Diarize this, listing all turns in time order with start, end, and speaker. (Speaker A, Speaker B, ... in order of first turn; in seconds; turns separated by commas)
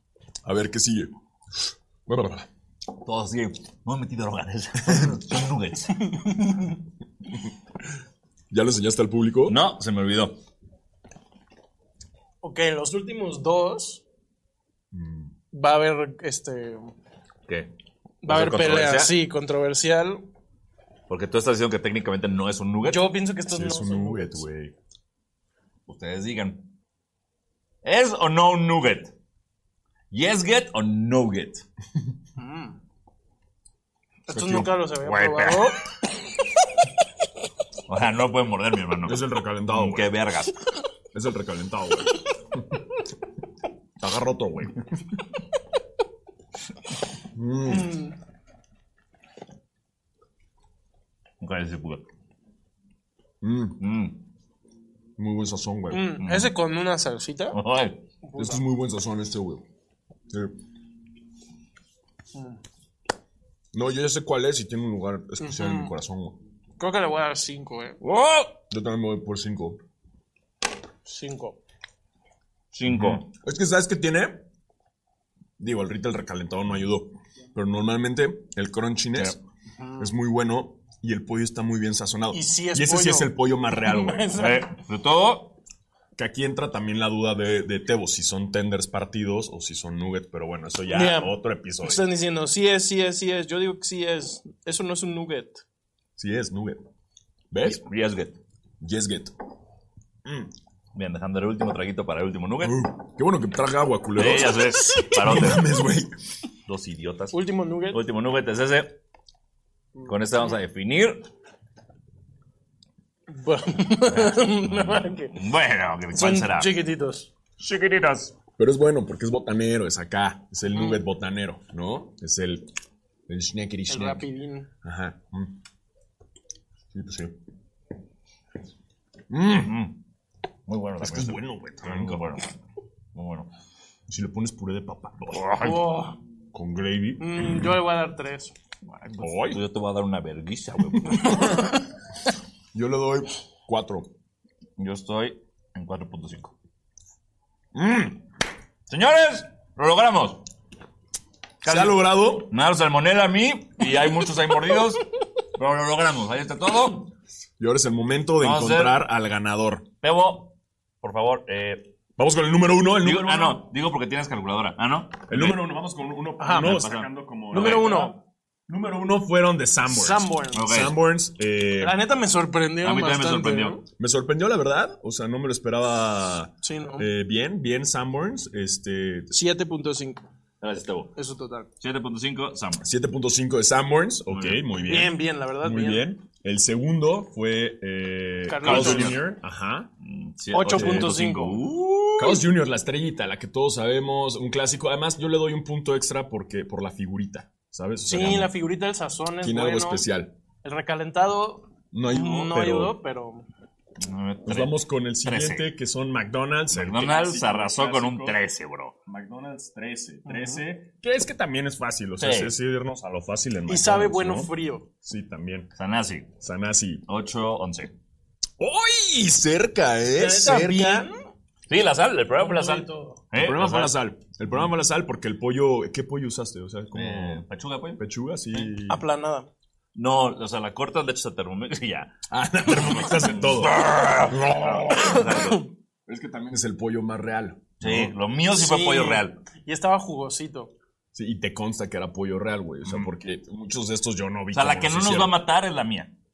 Speaker A: 0.4-1.1, Speaker A: 2.1-2.5, Speaker B: 3.0-6.0, Speaker C: 6.1-6.7, Speaker A: 8.5-9.6, Speaker B: 9.5-10.4, Speaker C: 12.4-14.0, Speaker A: 14.9-15.3, Speaker C: 15.5-16.9, Speaker C: 18.2-20.2, Speaker B: 18.2-19.1, Speaker B: 21.1-23.1, Speaker C: 22.9-24.4, Speaker A: 23.5-24.7, Speaker B: 25.9-26.7, Speaker B: 27.8-29.1, Speaker B: 30.1-31.6, Speaker C: 32.4-32.8, Speaker C: 34.3-35.8, Speaker A: 34.3-34.7, Speaker B: 35.0-35.7, Speaker B: 37.9-40.5, Speaker A: 39.0-40.1, Speaker A: 41.1-42.6, Speaker A: 44.0-44.8, Speaker A: 47.3-48.0, Speaker C: 47.7-48.1, Speaker B: 51.4-52.0, Speaker A: 53.4-53.8, Speaker B: 53.8-54.2, Speaker A: 55.2-56.1, Speaker C: 55.9-57.6, Speaker B: 56.2-56.5, Speaker B: 57.5-58.0, Speaker C: 58.2-58.6, Speaker A: 58.4-59.6, Speaker C: 62.3-62.6, Speaker A: 63.7-66.4, Speaker C: 65.4-65.9, Speaker C: 66.8-68.0, Speaker B: 68.0-68.6, Speaker A: 68.7-69.8, Speaker C: 71.0-71.6, Speaker B: 72.7-73.2, Speaker A: 72.8-74.4, Speaker A: 75.6-79.4, Speaker C: 79.8-80.1, Speaker A: 80.0-84.3, Speaker C: 82.3-84.7, Speaker B: 84.3-85.5, Speaker A: 86.2-92.0, Speaker C: 90.9-95.6, Speaker A: 96.2-96.8, Speaker A: 97.5-97.8, Speaker B: 97.6-98.4, Speaker A: 98.8-99.3, Speaker A: 100.2-100.5, Speaker B: 100.9-102.9, Speaker A: 102.6-106.1, Speaker B: 104.2-105.8, Speaker C: 104.8-105.1, Speaker B: 106.7-107.4, Speaker C: 107.3-108.0, Speaker B: 107.9-109.0, Speaker B: 110.1-111.3, Speaker C: 113.3-115.3, Speaker B: 114.1-116.7, Speaker C: 116.1-117.3, Speaker B: 117.6-118.3, Speaker A: 118.6-122.7, Speaker A: 123.3-124.2, Speaker C: 123.9-124.7, Speaker A: 124.8-125.5, Speaker A: 126.9-127.3, Speaker A: 129.3-129.8, Speaker B: 129.6-130.0, Speaker B: 130.7-132.5, Speaker A: 131.0-132.3, Speaker B: 133.2-133.5, Speaker A: 134.1-135.8, Speaker B: 135.3-135.8, Speaker C: 135.6-136.2, Speaker A: 136.5-137.7, Speaker C: 137.2-138.5, Speaker B: 138.8-141.5, Speaker A: 139.2-139.6, Speaker A: 142.7-144.1, Speaker B: 144.8-146.5, Speaker A: 147.7-148.2, Speaker B: 148.9-150.4, Speaker B: 151.6-155.0, Speaker A: 151.6-152.5, Speaker B: 155.6-157.1, Speaker A: 157.6-159.8, Speaker B: 158.4-159.0, Speaker B: 160.0-161.9, Speaker A: 162.2-163.7, Speaker B: 163.0-165.6, Speaker A: 165.3-172.0, Speaker C: 166.4-166.8, Speaker B: 166.6-168.1, Speaker C: 167.5-168.2, Speaker C: 169.9-170.7, Speaker B: 170.5-170.9, Speaker C: 171.8-173.8, Speaker B: 172.8-173.8, Speaker A: 174.0-179.3, Speaker C: 176.6-177.1, Speaker C: 179.3-180.2, Speaker B: 180.6-181.1, Speaker C: 181.2-181.7, Speaker B: 181.8-182.8, Speaker A: 182.8-189.9, Speaker B: 184.3-184.6, Speaker C: 184.9-186.1, Speaker C: 188.5-189.3, Speaker B: 188.6-189.3, Speaker B: 190.0-192.4, Speaker C: 190.5-191.6, Speaker A: 190.7-191.1, Speaker A: 192.2-198.5, Speaker C: 198.1-200.1, Speaker A: 199.4-200.3, Speaker C: 200.6-203.4, Speaker A: 201.9-203.0, Speaker B: 204.0-205.7, Speaker A: 204.5-208.4, Speaker B: 206.7-208.9, Speaker A: 209.1-215.7, Speaker C: 210.2-210.6, Speaker B: 212.2-212.5, Speaker C: 213.7-214.8, Speaker B: 215.8-216.3, Speaker A: 216.4-217.0, Speaker B: 217.1-217.9, Speaker A: 218.6-221.1, Speaker C: 220.2-221.3, Speaker B: 221.7-223.9, Speaker C: 222.3-223.2, Speaker A: 223.3-227.4, Speaker B: 226.9-228.0, Speaker A: 228.0-229.0, Speaker C: 228.9-229.5, Speaker B: 229.9-232.1, Speaker A: 232.3-235.5, Speaker B: 232.7-235.7, Speaker C: 235.0-235.6, Speaker A: 236.1-238.1, Speaker B: 237.8-239.4, Speaker C: 238.5-240.7, Speaker A: 241.1-245.3, Speaker B: 242.8-243.1, Speaker B: 244.5-246.1